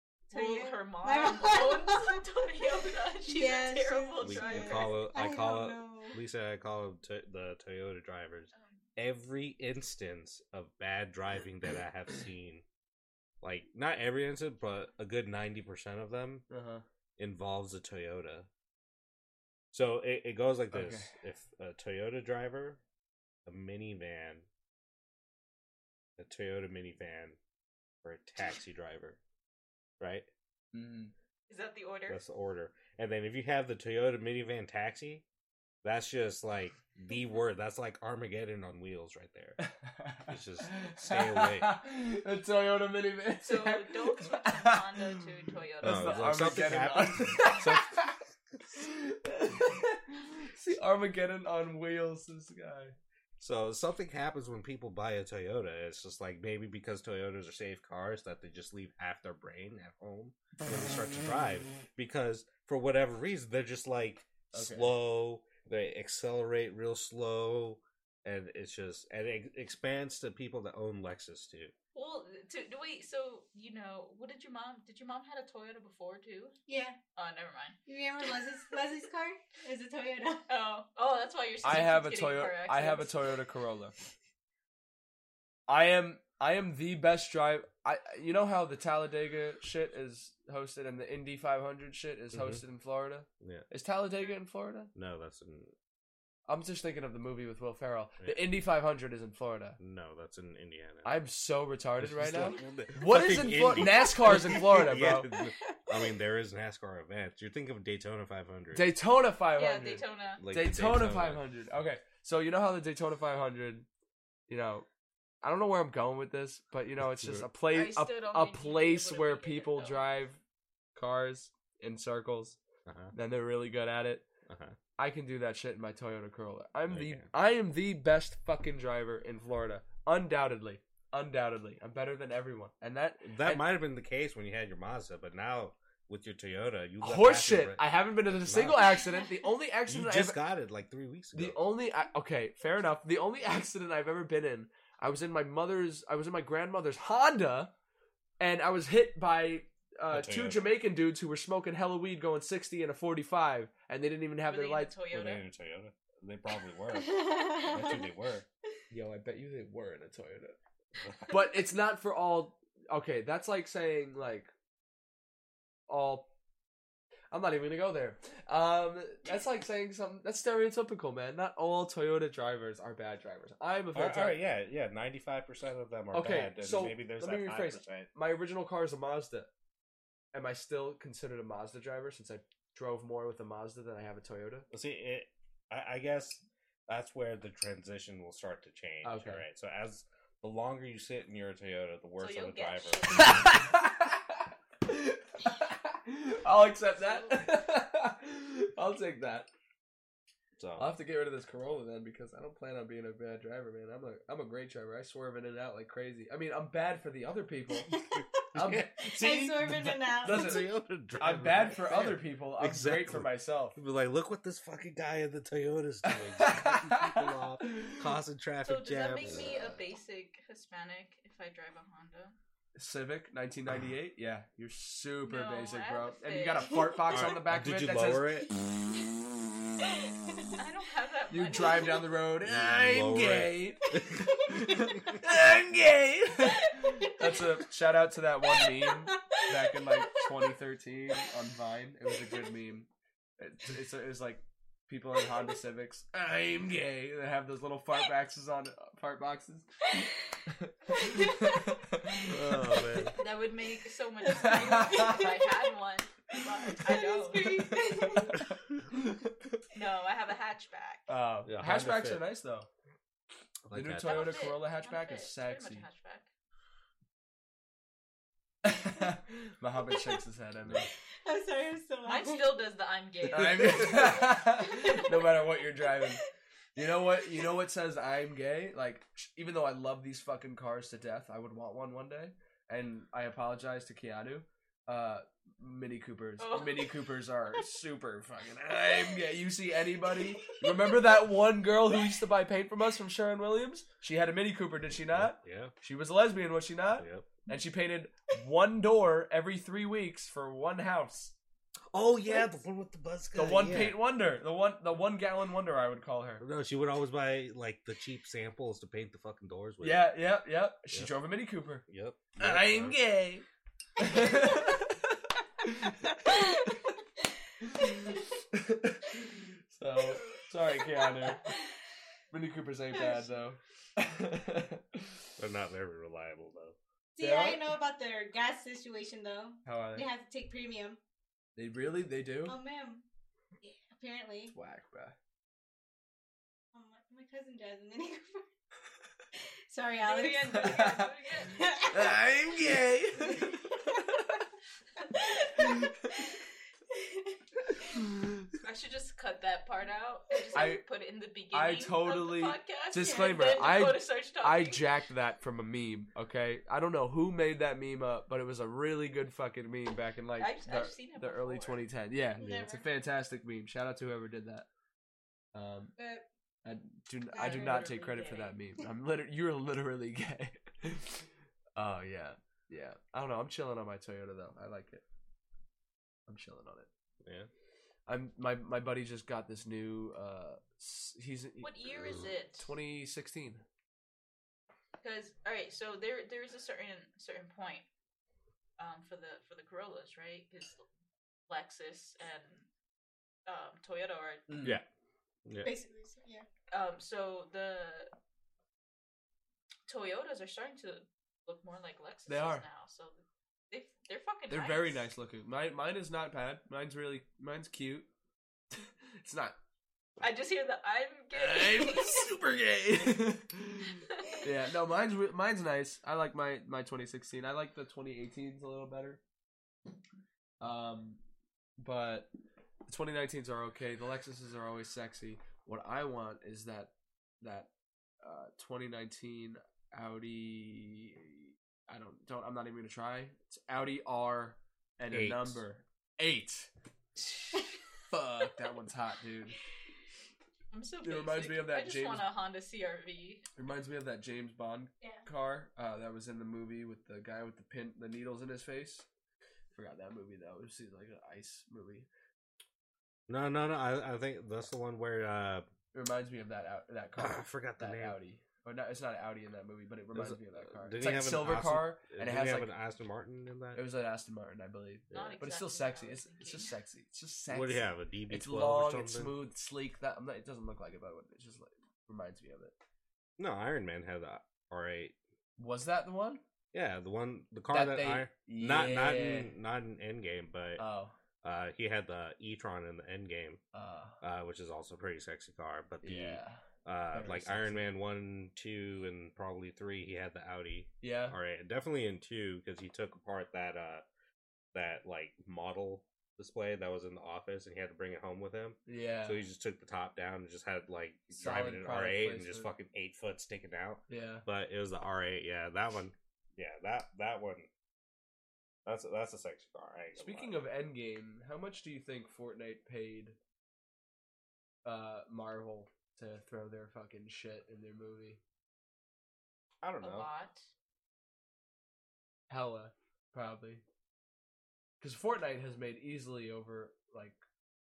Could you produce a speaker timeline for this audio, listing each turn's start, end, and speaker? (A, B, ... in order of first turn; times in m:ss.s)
0:00.3-0:02.2 A
0:00.3-0:05.1 B
0:03.2-0:06.2 A
0:04.2-0:12.6 C
0:08.5-0:08.9 B
0:13.4-0:16.5 C
0:16.5-0:16.8 D
0:17.2-0:18.5 C
0:19.7-0:22.8 C
0:20.7-0:21.1 D
0:23.5-0:24.5 C
0:26.2-0:27.4 C
0:28.0-0:29.2 C
0:30.0-0:30.3 C
0:30.7-0:31.1 D
0:31.5-0:32.2 B
0:32.1-0:35.2 C
0:35.8-0:39.7 C
0:39.6-0:45.2 D
0:40.3-0:41.8 C
0:43.4-0:46.8 B
0:45.8-0:48.2 D
0:45.8-0:48.6 C
0:48.7-0:53.0 D
0:53.4-1:11.7 C
1:04.5-1:04.9 D
1:11.9-1:16.6 B
1:16.7-1:17.0 A
1:17.2-1:17.8 B
1:17.9-1:20.5 A
1:20.5-1:23.2 B
1:21.6-1:24.0 D
1:25.7-1:34.9 D
1:32.3-1:32.6 C
1:33.4-1:33.7 C
1:35.0-1:35.7 C
1:36.5-1:39.8 D
1:38.2-1:38.5 C
1:39.8-1:41.2 C
1:41.0-1:45.3 D
1:42.0-1:48.9 C
1:45.3-1:45.8 A
1:48.7-1:53.9 D
1:49.6-1:50.4 B
1:50.4-1:51.4 C
1:54.5-1:54.9 D
1:55.4-2:00.4 D
1:57.1-1:57.5 C
1:57.7-2:00.1 B
2:01.0-2:02.6 D
2:02.9-2:03.1 C
2:03.1-2:04.3 D
2:04.5-2:04.8 C
2:05.0-2:13.6 D
2:06.9-2:07.3 C
2:13.2-2:19.0 C
2:17.0-2:20.4 D
2:19.9-2:21.6 C
2:21.3-2:27.7 D
2:28.4-2:34.9 D
2:30.1-2:30.7 C
2:34.5-2:35.4 B
2:35.1-2:38.5 C
2:37.1-2:37.8 A
2:38.9-2:40.6 D
2:41.0-2:41.4 C
2:41.3-2:44.5 D
2:45.9-2:46.3 D
2:47.3-2:54.4 D
2:53.9-2:58.1 C
2:56.1-2:59.5 D
3:00.3-3:04.7 D
3:04.7-3:13.6 C
3:09.0-3:09.4 D
3:12.2-3:13.6 B
3:13.2-3:19.5 D
3:20.6-3:20.9 C
3:20.8-3:28.0 D
3:27.9-3:28.4 A
3:28.2-3:39.8 C
3:28.5-3:29.3 D
3:29.0-3:30.6 A
3:30.2-3:33.8 D
3:36.1-3:38.1 D
3:38.6-3:42.4 B
3:42.8-3:48.3 D
3:45.2-3:46.9 B
3:47.1-3:48.5 C
3:50.0-3:50.5 A
3:50.6-3:52.2 B
3:51.3-4:09.9 D
3:52.4-3:55.4 C
3:56.7-3:57.3 A
3:58.6-4:00.3 A
4:10.5-4:13.2 D
4:11.0-4:11.6 A
4:12.2-4:13.2 C
4:13.2-4:17.8 B
4:14.3-4:15.6 A
4:14.3-4:15.3 D
4:16.3-4:18.4 A
4:17.4-4:19.6 D
4:19.7-4:21.1 B
4:21.1-4:22.7 D
4:21.4-4:22.2 C
4:23.7-4:24.5 C
4:23.7-4:25.9 D
4:24.0-4:26.3 B
4:28.6-4:30.9 D
4:31.2-4:32.6 A
4:32.1-4:34.6 B
4:33.3-4:36.2 D
4:34.6-4:35.0 A
4:36.8-5:01.4 D
4:46.4-4:47.1 B
4:55.1-4:55.7 C
4:57.0-4:57.3 C
5:01.9-5:04.0 C
5:03.4-5:06.4 D
5:06.4-5:10.1 C
5:09.8-5:11.8 D
5:10.9-5:11.2 C
5:11.9-5:13.0 C
5:12.4-5:13.4 D
5:14.0-5:16.7 D
5:16.3-5:16.7 A
5:17.6-5:21.6 D
5:20.9-5:21.7 A
5:22.3-5:25.2 D
5:22.9-5:23.3 A
5:25.4-5:26.8 C
5:27.2-5:31.0 A
5:27.2-5:27.8 D
5:29.6-5:30.1 D
5:31.6-5:32.6 D
5:32.5-5:33.0 A
5:33.6-5:34.6 A
5:34.5-5:35.2 D
5:36.7-5:38.5 A
5:39.7-5:42.2 A
5:40.0-5:42.0 B
5:40.5-5:41.1 D
5:41.9-5:44.3 D
5:43.2-5:44.2 A
5:45.0-5:48.0 A
5:45.6-5:45.9 D
5:48.6-5:54.8 B
5:50.5-5:50.8 D
5:51.5-6:04.7 D
5:53.0-5:53.8 A
6:00.4-6:01.8 B
6:02.4-6:02.9 A
6:05.5-6:05.9 D
6:06.0-6:06.2 A
6:06.6-6:15.0 D
6:07.3-6:08.2 A
6:07.3-6:08.6 B
6:16.3-6:16.9 D
6:17.2-6:17.5 C
6:18.1-6:23.6 D
6:21.6-6:22.7 B
6:25.0-6:27.9 B
6:28.8-6:30.8 B
6:31.5-6:32.7 B
6:33.5-6:34.5 B
6:34.5-6:34.8 D
6:35.4-6:35.7 C
6:35.6-6:36.5 A
6:36.7-6:38.1 B
6:39.9-6:45.1 B
6:42.3-6:42.6 D
6:44.5-6:48.1 D
6:48.7-6:49.6 D
6:50.2-6:52.3 B
6:51.4-6:59.2 D
7:00.6-7:01.2 D
7:01.8-7:02.3 D
7:02.8-7:07.7 D
7:08.2-7:16.7 D
7:15.1-7:15.6 C
7:18.1-7:19.6 D
7:20.7-7:23.5 B
7:21.0-7:22.3 D
7:23.6-7:29.1 D
7:29.7-7:32.1 D
7:33.3-7:35.7 C
7:35.9-7:42.7 D
7:37.2-7:38.2 C
7:40.1-7:43.8 C
7:43.7-7:52.7 D
7:45.1-7:45.4 C
7:45.1-7:46.8 B
7:47.5-7:49.3 C
7:53.4-7:55.2 C
7:55.6-7:56.4 D
7:56.7-8:00.8 C
7:57.7-7:59.5 D
8:00.8-8:01.1 D
8:01.4-8:03.6 C
8:03.7-8:04.2 D
8:04.2-8:14.0 C
8:06.0-8:07.9 D
8:11.0-8:11.4 D
8:14.7-8:27.7 C
8:18.9-8:19.4 D
8:21.4-8:22.7 D
8:24.1-8:24.4 D
8:28.9-8:30.6 C
8:30.2-8:33.4 D
8:34.8-8:38.4 D
8:39.8-8:40.3 C
8:40.0-8:40.7 B
8:42.5-8:43.8 D
8:45.0-8:47.4 D